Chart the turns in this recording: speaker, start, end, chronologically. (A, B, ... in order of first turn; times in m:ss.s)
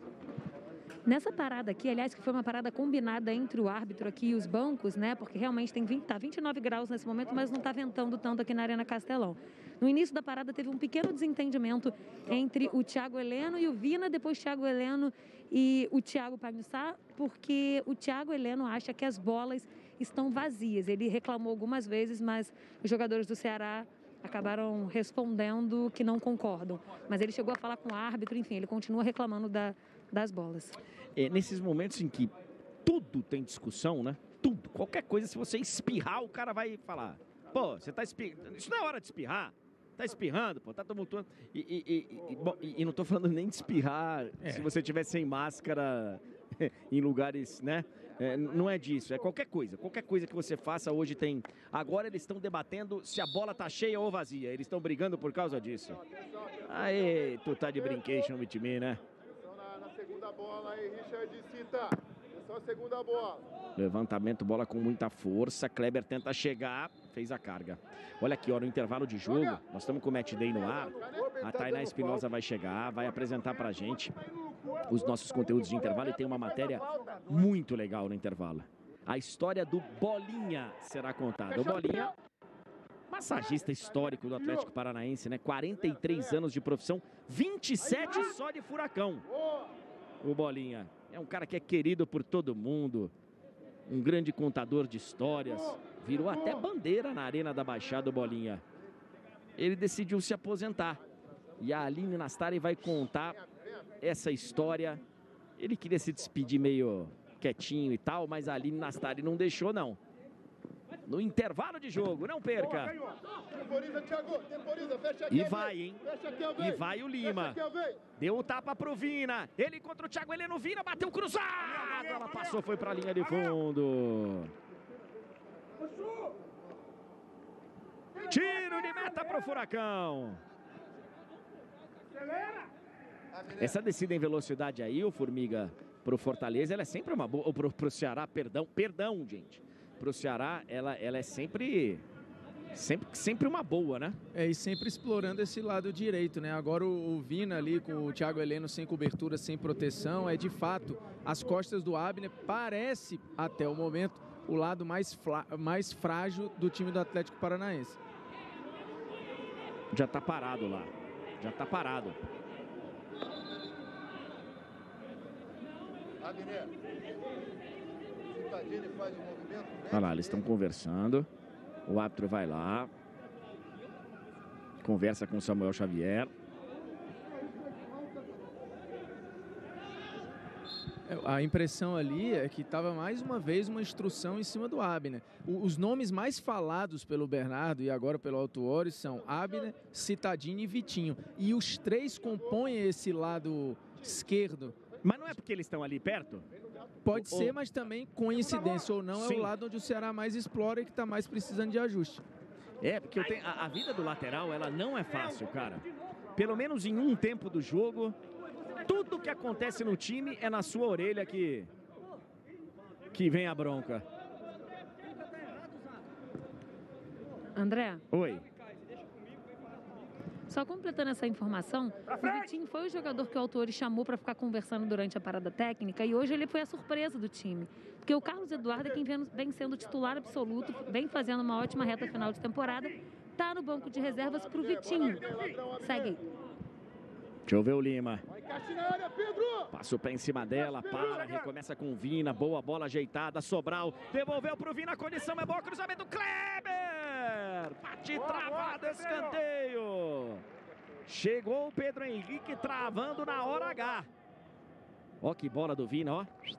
0:01.1-0:30.8 A
0:31.2-0:32.3 B
0:32.8-0:56.0 B
0:44.4-0:44.7 C
0:56.0-0:57.0 D
0:56.7-0:59.0 B
0:59.4-1:03.5 D
1:03.8-1:14.2 B
1:14.9-1:22.1 B
1:23.1-1:29.3 B
1:30.2-1:33.1 B
1:33.9-1:38.6 B
1:39.6-1:41.0 B
1:41.6-1:43.4 B
1:44.0-1:45.0 B
1:45.6-1:50.0 B
1:51.1-1:53.0 B
1:53.4-1:56.7 D
1:55.3-1:56.0 B
1:56.6-1:57.6 B
1:57.3-1:58.0 D
1:58.2-2:04.5 B
2:08.2-2:10.4 B
2:13.5-2:22.0 B
2:22.7-2:24.2 B
2:24.3-2:38.0 C
2:39.9-2:42.2 B
2:49.9-2:51.3 B
2:51.9-2:52.9 B
2:54.8-2:56.3 B
3:01.0-3:14.8 C
3:15.0-3:16.5 B
3:17.0-3:22.2 C
3:17.1-3:17.6 B
3:19.1-3:19.5 B
3:22.8-3:28.2 B
3:28.8-3:31.7 B
3:33.1-3:34.0 B
3:37.6-3:38.0 A
3:38.1-3:38.4 B
3:40.5-3:56.2 A
3:54.7-3:56.0 D
3:57.5-3:58.2 B
3:58.3-3:59.7 D
3:59.7-4:10.4 B
4:11.1-4:14.1 B
4:15.2-4:16.3 B